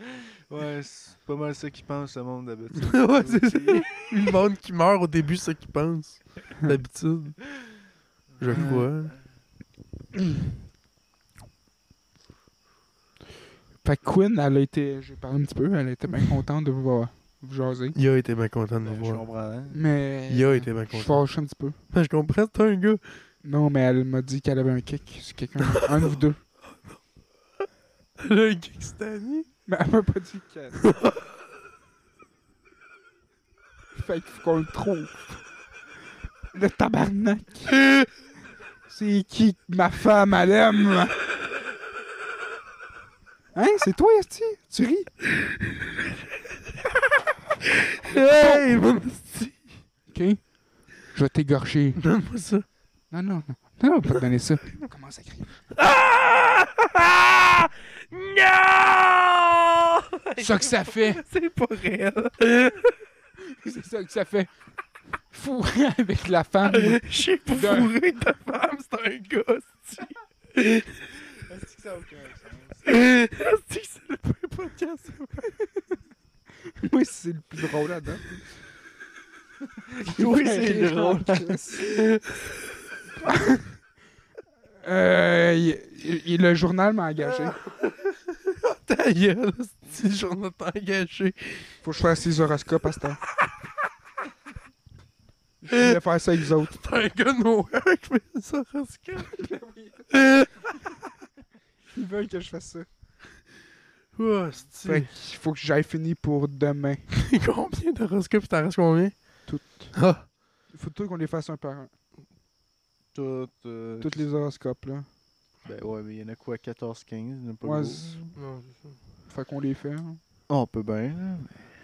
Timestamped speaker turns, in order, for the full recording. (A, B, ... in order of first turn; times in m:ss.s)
0:00.5-0:04.0 A
0:02.8-0:07.5 B
0:08.4-0:09.1 B
0:08.4-0:08.9 A
0:08.5-0:08.9 C
0:13.8-0:17.9 C
0:17.9-0:19.2 B
0:18.8-0:19.8 A
0:19.7-0:21.8 C
0:20.3-0:21.3 B
0:21.9-0:23.0 B
0:23.4-0:26.4 C
0:28.2-0:29.5 B
0:29.6-0:30.8 C
0:30.8-0:31.2 B
0:33.9-0:35.4 C
0:36.5-0:37.8 C
0:37.7-0:38.1 B
0:38.9-0:41.2 C
0:43.5-0:45.1 C
0:47.7-0:49.7 B
0:48.1-0:48.6 C
0:50.1-0:52.0 C
0:52.0-0:52.6 B
0:53.1-0:55.6 C
0:55.8-1:02.9 B
1:00.4-1:01.2 C
1:03.5-1:04.5 C
1:05.3-1:07.9 C
1:06.6-1:10.9 B
1:11.3-1:12.9 A
1:12.8-1:15.5 B
1:16.8-1:18.4 C
1:19.9-1:21.6 A
1:20.0-1:21.9 C
1:21.8-1:22.6 B
1:23.2-1:23.7 C
1:24.8-1:27.6 C
1:27.6-1:31.7 B
1:31.8-1:33.2 C
1:35.6-1:36.8 C
1:35.7-1:36.0 B
1:36.6-1:39.3 B
1:39.3-1:40.1 C
1:40.1-1:40.6 B
1:41.9-1:42.9 C
1:44.1-1:45.1 B
1:44.8-1:47.0 C
1:47.1-1:50.3 B
1:49.4-1:51.9 C
1:53.1-1:54.2 A
1:54.0-1:55.1 C
1:55.6-1:58.3 A
1:57.6-1:58.2 C
1:58.4-1:59.0 B
1:59.3-2:00.2 C
2:00.5-2:01.7 A